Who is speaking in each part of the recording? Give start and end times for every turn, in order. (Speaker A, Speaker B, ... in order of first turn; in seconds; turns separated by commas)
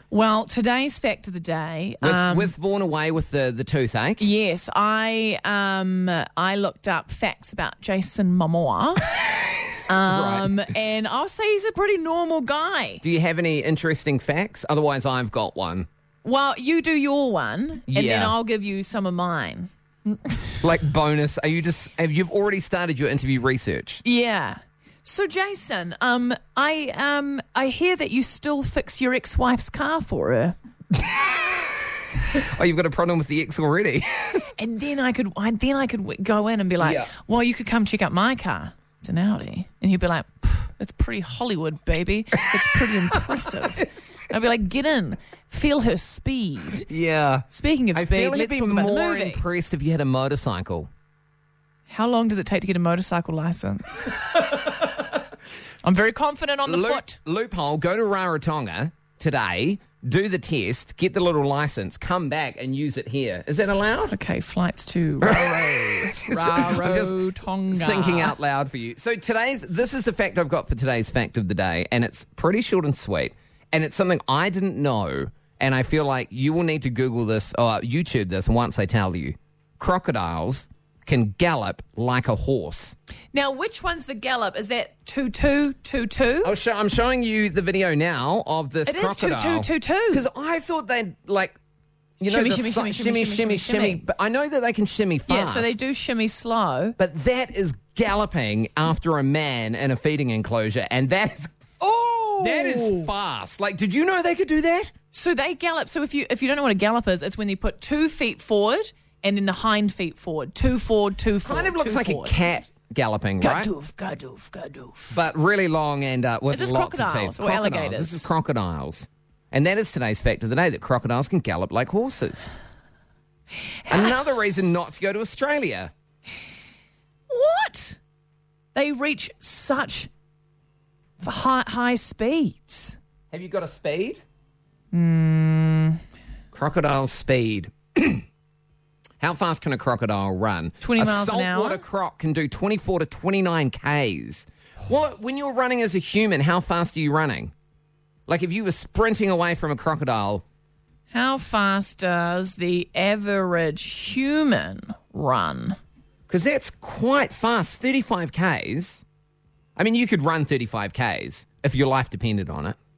Speaker A: 0.1-2.5, Speaker B: 2.0-4.3, Speaker A: 4.2-9.1, Speaker B: 9.2-10.7, Speaker A: 9.9-13.0, Speaker B: 13.0-15.9, Speaker A: 16.2-20.6, Speaker B: 17.9-18.3, Speaker B: 20.6-24.0, Speaker A: 24.0-30.6, Speaker B: 32.3-34.5, Speaker A: 34.5-46.9, Speaker B: 36.8-37.1, Speaker B: 42.5-43.8, Speaker B: 46.9-50.9, Speaker A: 47.5-49.4, Speaker A: 51.9-54.1, Speaker A: 55.8-57.2, Speaker B: 56.6-64.2, Speaker A: 64.1-68.3, Speaker B: 65.2-83.0, Speaker A: 83.3-86.5, Speaker B: 86.4-91.6, Speaker A: 88.8-90.2, Speaker B: 92.2-95.8, Speaker A: 92.3-94.0, Speaker A: 95.3-97.0, Speaker B: 97.0-101.6, Speaker A: 101.8-103.1, Speaker B: 102.4-104.9, Speaker A: 105.1-112.6, Speaker B: 111.4-113.7, Speaker A: 113.4-115.2, Speaker B: 115.1-122.5, Speaker A: 116.5-118.3, Speaker A: 123.9-124.2, Speaker B: 123.9-125.9, Speaker A: 127.3-128.0, Speaker A: 128.7-130.1, Speaker A: 131.2-133.0, Speaker B: 133.3-134.2, Speaker A: 134.9-136.0, Speaker B: 136.5-138.2, Speaker B: 139.2-147.5, Speaker A: 140.8-141.8, Speaker B: 148.3-150.4, Speaker A: 151.1-155.8, Speaker B: 156.3-159.1, Speaker B: 159.8-162.8